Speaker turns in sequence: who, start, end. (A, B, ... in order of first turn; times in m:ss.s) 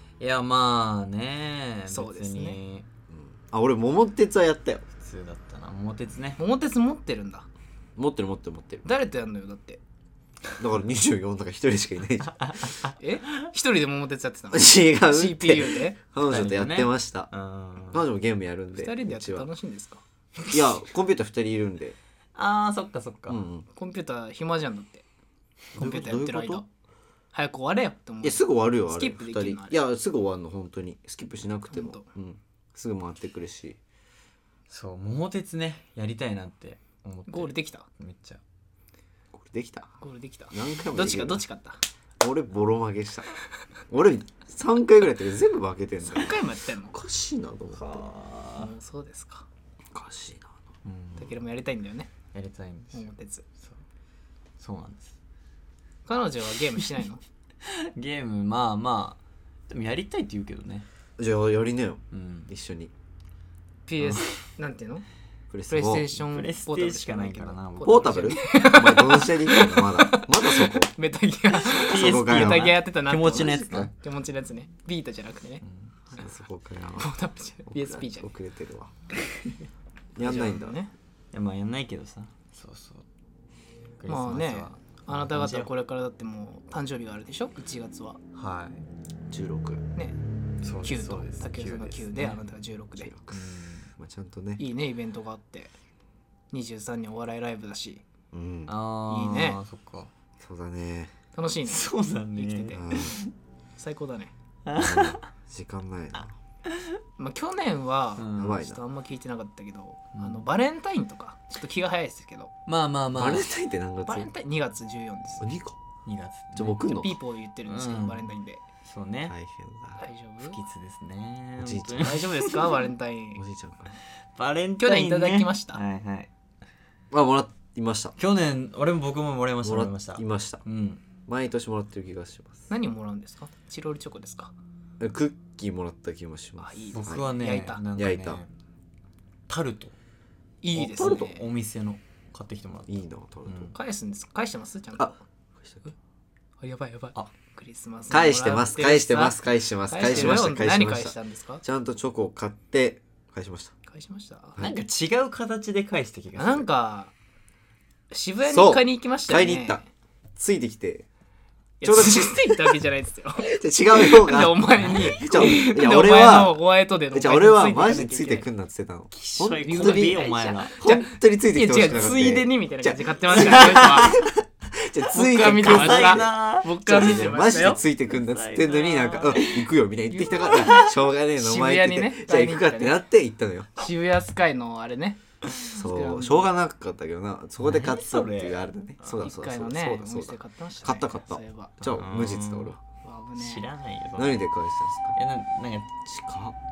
0:00.2-0:02.9 A
0:01.9-0:02.6 B
0:03.1-0:04.8 C
0:04.9-0:06.4 A
0:06.4-0:07.5 B
0:08.0-0:08.9 C
0:08.8-0:09.8 B
0:10.6-0:12.5 C
0:12.4-0:13.5 A
0:13.0-0:16.0 B
0:14.5-0:17.3 C
0:16.2-0:18.0 A
0:17.9-0:19.5 C
0:18.8-0:20.0 B
0:20.5-0:22.0 C
0:22.4-0:23.4 A
0:23.3-0:23.7 C
0:23.8-0:25.0 B
0:25.7-0:26.7 B
0:25.8-0:26.6 C
0:27.3-0:29.8 B
0:28.2-0:33.8 C
0:31.7-0:32.0 B
0:34.7-0:38.4 A
0:37.3-0:37.9 B
0:39.3-0:39.9 C
0:40.0-0:41.8 B
0:40.5-0:41.4 C
0:42.2-0:43.3 C
0:43.9-0:46.4 C
0:46.1-0:47.0 B
0:46.9-0:48.0 C
0:47.7-0:48.7 A
0:48.6-0:49.5 B
0:49.9-0:50.6 C
0:50.8-0:51.3 A
0:51.2-0:52.1 B
0:52.3-0:53.1 A
0:52.9-0:53.4 B
0:54.6-0:55.2 A
0:56.1-0:57.2 B
0:57.6-1:00.9 A
1:01.2-1:02.9 C
1:02.1-1:02.5 A
1:03.9-1:05.0 B
1:04.0-1:04.4 A
1:05.5-1:06.1 C
1:05.7-1:15.6 B
1:06.2-1:08.6 A
1:07.8-1:10.9 C
1:11.5-1:13.9 A
1:11.8-1:12.8 C
1:13.3-1:13.9 C
1:15.6-1:16.3 A
1:16.1-1:17.1 C
1:17.0-1:18.3 B
1:17.7-1:18.9 C
1:20.2-1:20.8 C
1:20.2-1:20.9 B
1:21.3-1:23.0 A
1:24.0-1:25.7 A
1:24.1-1:28.2 B
1:28.3-1:28.8 A
1:29.3-1:29.8 C
1:30.6-1:32.4 A
1:30.8-1:33.1 B
1:33.0-1:34.6 C
1:33.3-1:33.9 A
1:34.6-1:35.7 B
1:36.5-1:38.0 B
1:38.3-1:38.7 C
1:38.7-1:40.1 A
1:39.1-1:39.6 B
1:40.4-1:41.2 C
1:41.3-1:43.0 B
1:41.7-1:43.3 A
1:42.7-1:43.2 C
1:43.8-1:44.3 B
1:44.7-1:45.3 A
1:44.8-1:46.4 C
1:46.7-1:47.0 A
1:47.2-1:52.5 B
1:48.2-1:48.6 A
1:48.4-1:48.8 C
1:50.1-1:50.4 A
1:52.7-1:53.5 A
1:53.1-1:54.3 C
1:54.0-1:55.5 B
1:55.4-1:55.8 C
1:56.0-1:56.8 A
1:56.6-1:57.2 C
1:56.8-1:58.6 B
1:57.7-1:58.3 A
1:58.8-1:59.4 A
1:59.3-2:00.1 C
2:00.0-2:00.6 B
2:00.4-2:02.7 A
2:01.6-2:02.2 C
2:02.0-2:03.4 B
2:03.4-2:03.9 C
2:04.4-2:06.3 A
2:04.8-2:05.8 B
2:07.1-2:08.2 C
2:08.2-2:11.0 A
2:09.6-2:10.6 C
2:11.3-2:12.7 C
2:12.7-2:14.5 B
2:15.0-2:17.3 C
2:16.6-2:17.8 B
2:16.9-2:18.5 A
2:18.0-2:18.4 C
2:19.5-2:20.0 A
2:20.6-2:21.4 B
2:20.8-2:21.3 C
2:20.8-2:23.8 A
2:22.9-2:23.7 C
2:23.8-2:25.2 B
2:25.0-2:25.9 C
2:26.6-2:29.4 B
2:28.1-2:33.7 C
2:29.9-2:31.6 B
2:33.9-2:34.6 B
2:34.6-2:36.7 A
2:36.4-2:37.1 B
2:38.1-2:39.8 B
2:38.4-2:39.8 C
2:40.4-2:41.1 C
2:41.8-2:48.4 B
2:41.8-2:42.8 C
2:43.4-2:46.6 C
2:47.1-2:50.3 C
2:49.1-2:50.8 A
2:49.6-2:54.2 B
2:50.8-3:03.7 C
2:53.3-2:54.1 A
2:55.1-2:57.8 B
2:55.5-2:56.7 A
2:58.1-2:59.7 A
3:00.1-3:03.0 B
3:03.8-3:06.5 B
3:05.7-3:12.8 C
3:07.6-3:09.1 A
3:09.2-3:11.8 B
3:11.8-3:12.8 A
3:13.0-3:13.7 B
3:13.4-3:14.4 A
3:14.2-3:15.2 C
3:15.2-3:15.9 A
3:16.0-3:16.6 C